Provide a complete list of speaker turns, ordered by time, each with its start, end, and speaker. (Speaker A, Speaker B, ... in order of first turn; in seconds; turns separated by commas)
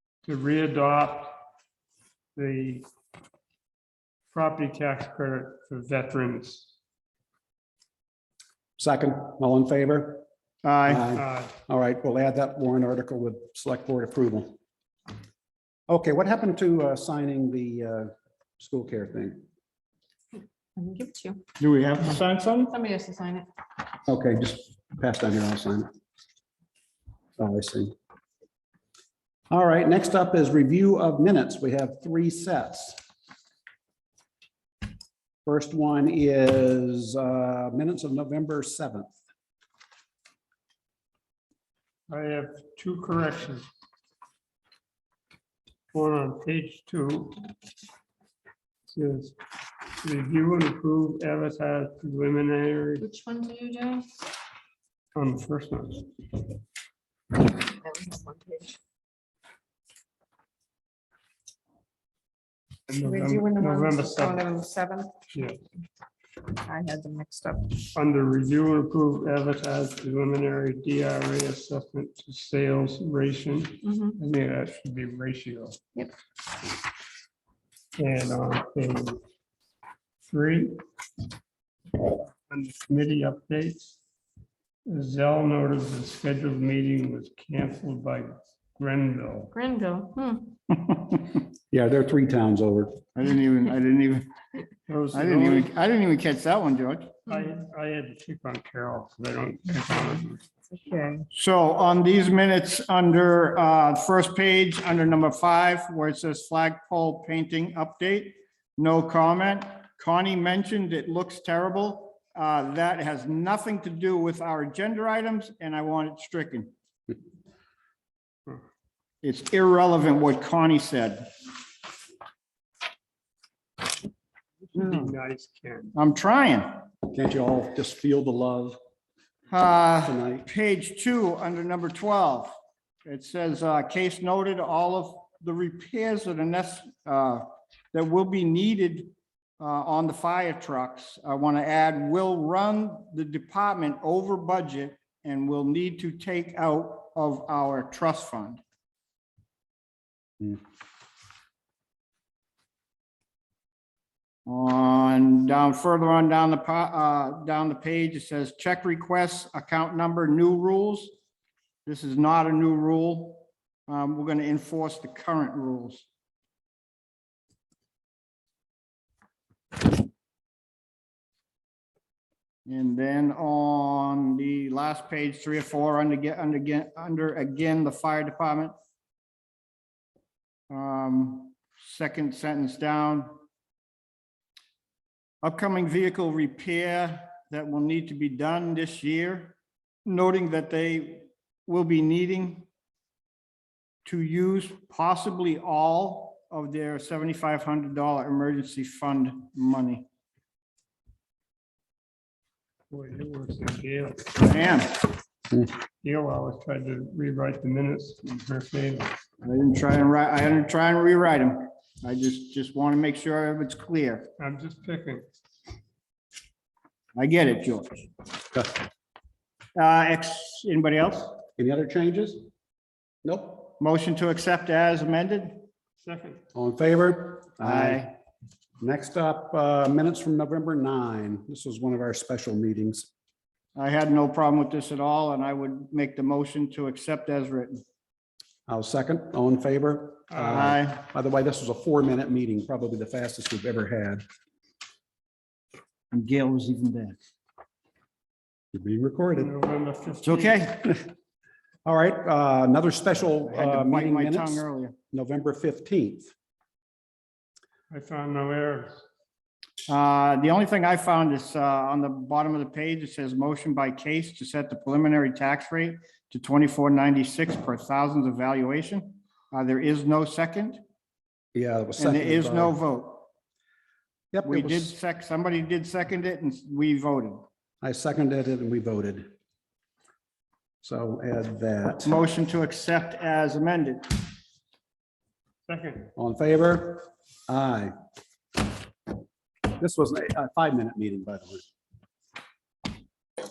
Speaker A: 0.2-1.4, Speaker A: 2.4-2.9, Speaker A: 4.3-6.7, Speaker B: 8.8-10.2, Speaker C: 10.6-11.1, Speaker B: 10.8-14.6, Speaker A: 11.2-11.5, Speaker B: 15.9-19.4, Speaker D: 20.8-21.4, Speaker C: 21.6-22.7, Speaker D: 22.7-23.5, Speaker B: 24.1-25.9, Speaker B: 27.4-27.9, Speaker B: 29.5-33.0, Speaker B: 35.4-39.1, Speaker A: 42.1-43.7, Speaker A: 45.9-47.5, Speaker A: 48.9-49.4, Speaker A: 50.0-53.1, Speaker D: 53.0-54.2, Speaker A: 55.1-56.1, Speaker D: 57.4-58.8, Speaker A: 62.9-64.5, Speaker D: 63.0-65.2, Speaker A: 65.3-65.6, Speaker D: 66.4-67.8, Speaker A: 67.9-75.8, Speaker D: 73.9-74.1, Speaker A: 78.0-79.2, Speaker A: 80.2-80.8, Speaker A: 82.5-84.0, Speaker A: 84.8-89.5, Speaker D: 89.5-90.6, Speaker B: 91.7-93.0, Speaker C: 93.2-94.3, Speaker A: 94.9-95.7, Speaker C: 95.1-97.2, Speaker A: 97.3-100.4, Speaker D: 100.7-101.2, Speaker C: 101.3-116.7, Speaker C: 119.2-121.3, Speaker A: 124.7-125.9, Speaker C: 124.8-125.1, Speaker C: 125.9-126.8, Speaker B: 127.1-128.8, Speaker C: 129.5-148.6, Speaker B: 130.0-130.5, Speaker C: 154.4-161.1, Speaker C: 161.8-166.1, Speaker C: 172.7-178.7, Speaker C: 180.7-183.4, Speaker C: 185.4-189.5, Speaker C: 190.1-192.7, Speaker C: 194.0-200.1, Speaker A: 202.9-204.5, Speaker C: 204.4-204.9, Speaker A: 206.0-209.1, Speaker C: 209.4-214.3, Speaker A: 214.4-215.3, Speaker C: 217.2-218.1, Speaker C: 219.7-221.4, Speaker B: 221.6-222.4, Speaker B: 223.2-223.8, Speaker C: 223.8-225.6, Speaker A: 226.0-226.4, Speaker B: 226.5-228.1, Speaker C: 227.6-228.1, Speaker B: 228.8-233.1, Speaker C: 233.8-237.8, Speaker B: 238.7-244.2, Speaker A: 240.3-240.7, Speaker C: 240.5-241.0, Speaker C: 246.1-247.2, Speaker B: 248.7-249.5, Speaker A: 249.4-250.6, Speaker C: 250.2-250.9, Speaker B: 251.8-256.3, Speaker C: 253.5-254.9, Speaker A: 257.9-259.0, Speaker C: 259.9-270.8, Speaker B: 271.5-272.8, Speaker C: 272.0-273.3, Speaker B: 274.3-274.9, Speaker C: 274.4-277.4, Speaker B: 277.8-279.3, Speaker B: 280.8-282.1, Speaker C: 282.0-284.1, Speaker A: 285.7-286.1, Speaker B: 286.1-287.9, Speaker B: 289.7-291.6